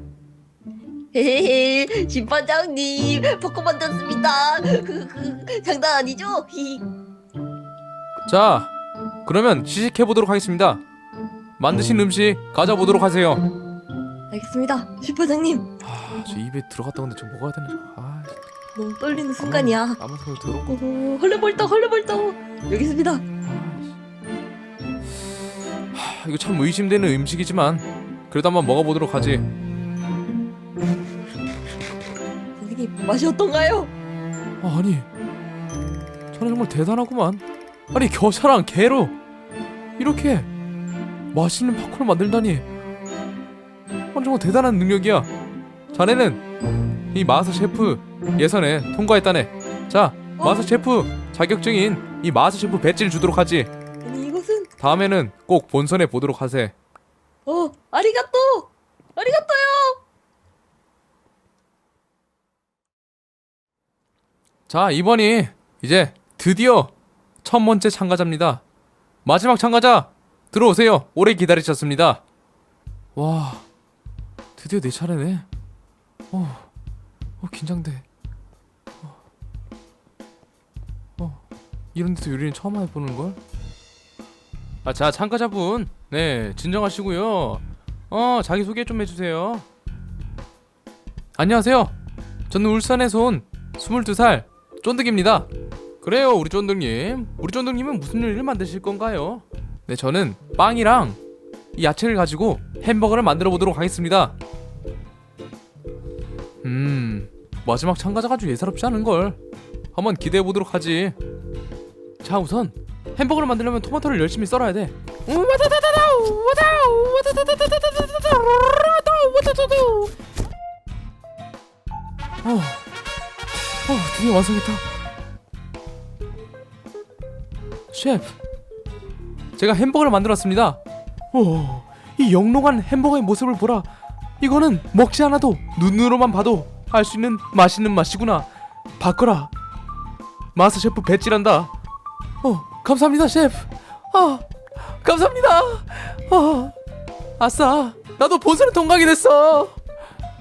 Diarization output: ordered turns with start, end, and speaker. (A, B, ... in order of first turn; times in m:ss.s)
0:01.1-0:06.9 A
0:08.2-0:08.7 B
0:09.2-0:10.8 B
0:11.6-0:13.4 B
0:14.3-0:15.7 A
0:15.8-0:18.4 B
0:18.8-0:20.0 A
0:19.4-0:20.8 B
0:20.7-0:23.2 A
0:23.4-0:23.9 B
0:25.9-0:29.4 B
0:32.6-0:33.9 A
0:34.6-0:35.1 B
0:36.3-0:39.1 B
0:40.0-0:40.5 B
0:41.3-0:42.7 B
0:44.1-0:45.3 B
0:45.9-0:46.4 B
0:47.1-0:53.7 B
0:50.4-0:50.7 A
0:54.0-0:54.8 A
0:54.8-0:56.7 B
0:57.5-1:00.0 A
1:04.7-1:06.9 B
1:07.4-1:08.6 B
1:09.2-1:12.2 B
1:13.2-1:13.6 B
1:14.6-1:15.5 B
1:16.3-1:16.7 B
1:17.4-1:18.0 B
1:21.9-1:23.4 B
1:24.8-1:29.6 B
1:31.4-1:31.9 B
1:32.5-1:35.5 B
1:36.0-1:41.2 B
1:41.8-1:44.4 B
1:46.6-1:49.4 B
1:49.9-1:51.2 B
1:52.2-2:00.1 B
2:02.4-2:02.8 B
2:03.8-2:04.8 B
2:07.9-2:08.3 B
2:09.6-2:10.8 B
2:11.3-2:13.9 B
2:14.4-2:19.5 B
2:20.6-2:21.7 B
2:22.4-2:26.8 B
2:27.4-2:29.8 B